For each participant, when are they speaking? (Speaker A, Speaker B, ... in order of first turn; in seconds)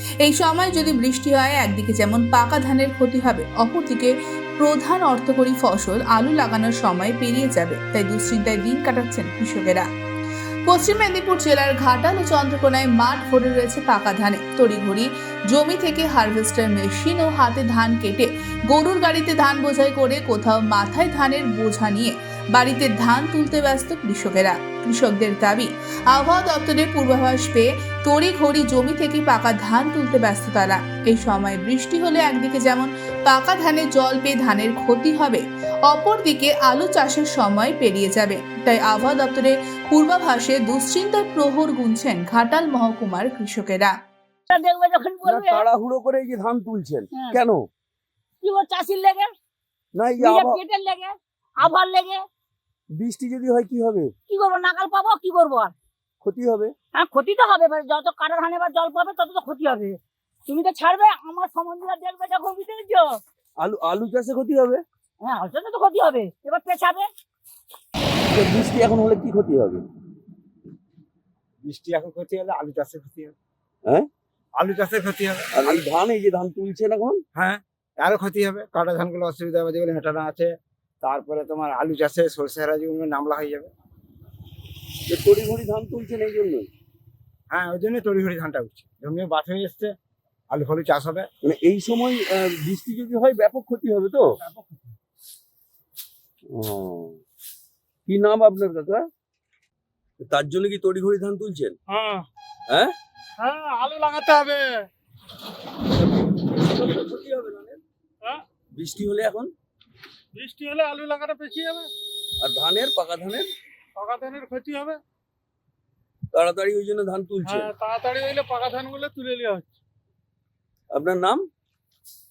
Speaker A: 0.2-9.9, 10.7-43.9
Speaker B: 44.5-45.6, 47.1-47.4, 48.4-49.3, 50.2-52.2, 54.3-55.7, 56.9-63.2, 65.2-67.1
Speaker C: 45.2-47.7, 50.0-50.6, 53.0-54.1, 56.2-56.7, 63.6-64.8, 68.3-69.8, 75.5-77.2, 85.1-86.7, 91.4-94.3, 96.5-97.2, 98.1-99.0, 100.2-101.8, 102.7-102.9, 106.0-107.8, 108.7-109.5, 112.4-113.5, 116.3-117.7, 120.9-121.5
Speaker D: 71.6-73.3, 74.6-75.8, 77.3-83.7, 87.5-90.0, 90.5-91.3
Speaker E: 102.0-102.2, 103.4-104.8, 110.4-111.9, 114.0-115.0, 117.5-119.8